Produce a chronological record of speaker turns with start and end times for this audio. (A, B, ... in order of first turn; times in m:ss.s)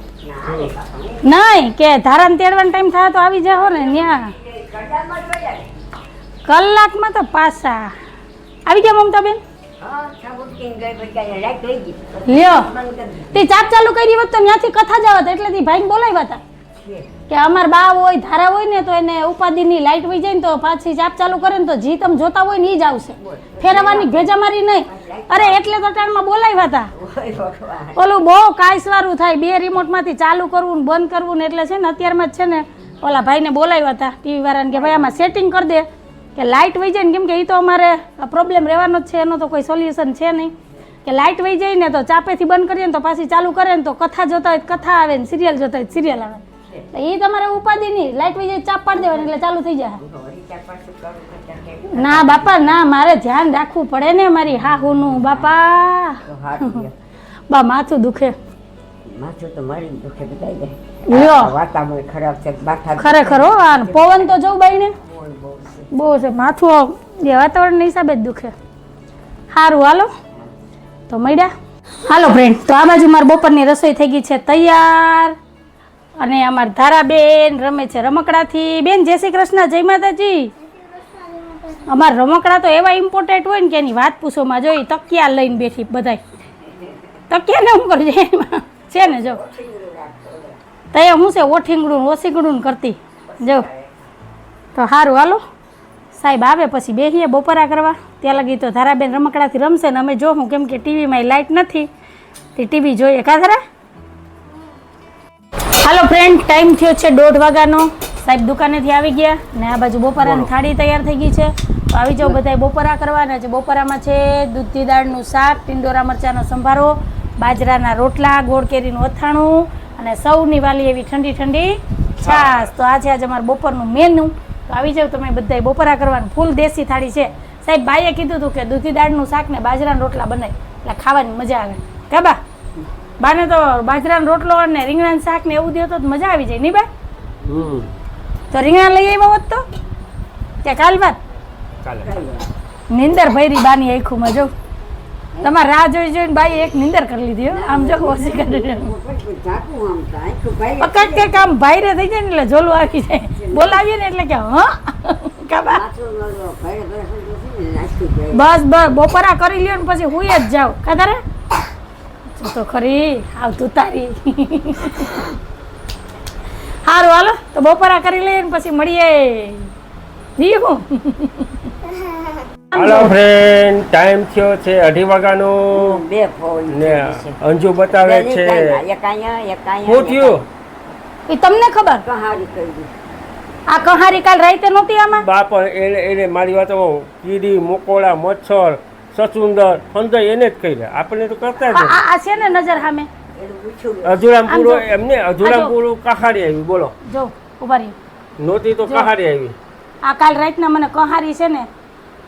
0:00.2-0:01.2 A
0:00.4-0:00.7 B
0:01.2-0:04.3 C
0:03.6-0:05.7 A
0:06.4-0:07.9 C
0:08.7-0:09.4 C
0:09.8-0:13.5 A
0:12.2-0:12.7 C
0:13.3-0:16.4 C
0:16.8-0:17.1 A
0:17.3-0:26.9 C
0:23.2-0:24.3 A
0:24.8-0:25.7 A
0:26.9-0:28.0 A
0:28.0-0:40.5 C
0:34.7-0:35.1 A
0:41.0-0:50.0 C
0:49.0-0:49.3 A
0:50.0-0:52.8 A
0:51.9-0:56.8 C
0:54.9-0:55.6 A
0:56.2-0:56.9 A
0:57.5-0:58.4 C
0:59.1-1:04.3 A
1:01.1-1:01.6 C
1:03.0-1:04.9 C
1:05.0-1:05.9 A
1:05.9-1:08.5 C
1:09.5-1:10.1 C
1:11.1-1:11.5 C
1:12.0-1:15.4 C
1:16.2-1:20.5 C
1:21.7-1:26.2 C
1:26.6-1:27.0 A
1:27.3-1:29.4 C
1:29.0-1:30.6 A
1:30.9-1:33.7 C
1:33.3-1:34.0 A
1:34.7-1:35.4 C
1:36.1-1:41.9 C
1:42.5-1:43.6 C
1:45.7-2:12.4 C
1:50.2-1:50.5 B
2:02.2-2:02.7 B
2:13.2-2:16.9 C
2:17.4-2:17.9 B
2:18.5-2:19.6 C
2:20.6-2:21.2 C
2:21.8-2:22.1 B
2:22.0-2:22.5 A
2:22.9-2:24.5 C
2:25.4-2:28.9 C
2:27.5-2:31.5 A
2:30.8-2:35.8 C
2:33.4-2:33.8 A
2:35.6-2:38.5 A
2:38.3-2:41.2 C
2:42.3-2:45.2 C
2:46.8-2:49.7 C
2:50.4-2:51.5 C
2:52.7-2:53.1 C
2:52.7-2:56.0 B
2:55.7-2:57.4 A
2:56.7-2:58.8 B
2:57.9-3:00.4 A
2:59.8-3:00.4 B
3:01.3-3:02.0 C
3:02.0-3:02.9 A
3:03.7-3:05.2 C
3:05.2-3:12.0 B
3:11.6-3:13.1 C
3:13.4-3:14.2 A
3:14.0-3:16.9 B
3:14.5-3:14.8 C
3:15.4-3:15.7 C
3:17.0-3:18.0 C
3:18.4-3:19.6 B
3:20.0-3:21.7 C